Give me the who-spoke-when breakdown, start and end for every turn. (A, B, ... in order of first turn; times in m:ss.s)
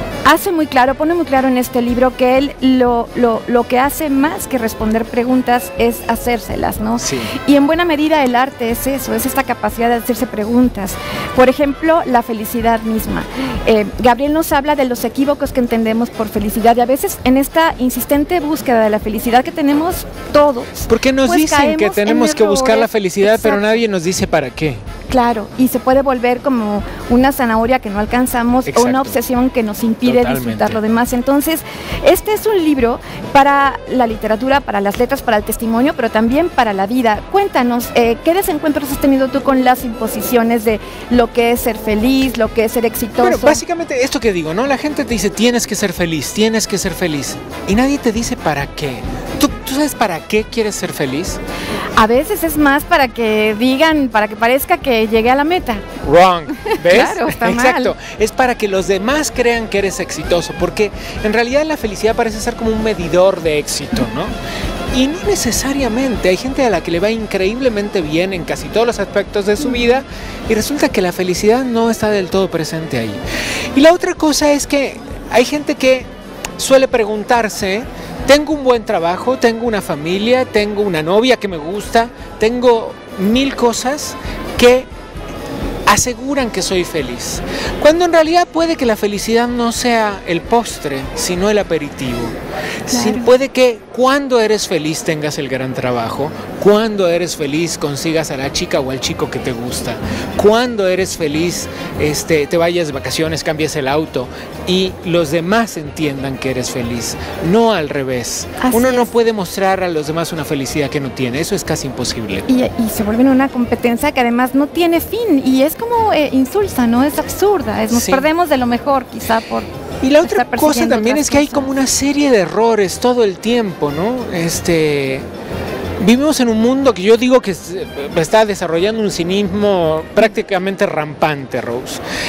0:00.2-0:23.8 A
0:07.0-0:07.3 B
0:20.9-0:24.8 B
0:25.1-0:43.6 A
0:28.6-0:29.2 B
0:30.0-0:30.8 B
0:43.2-0:51.4 B
0:52.0-0:55.8 A
0:56.0-1:04.3 B
0:56.6-0:57.9 A
1:04.9-1:13.2 B
1:13.7-1:24.9 B
1:25.9-1:32.4 B
1:32.9-1:52.4 B
1:32.9-1:33.3 A
1:48.6-1:49.1 A
1:52.5-1:59.7 A
1:57.9-1:58.3 B
2:00.0-2:05.2 B
2:00.2-2:01.7 A
2:06.0-2:12.0 B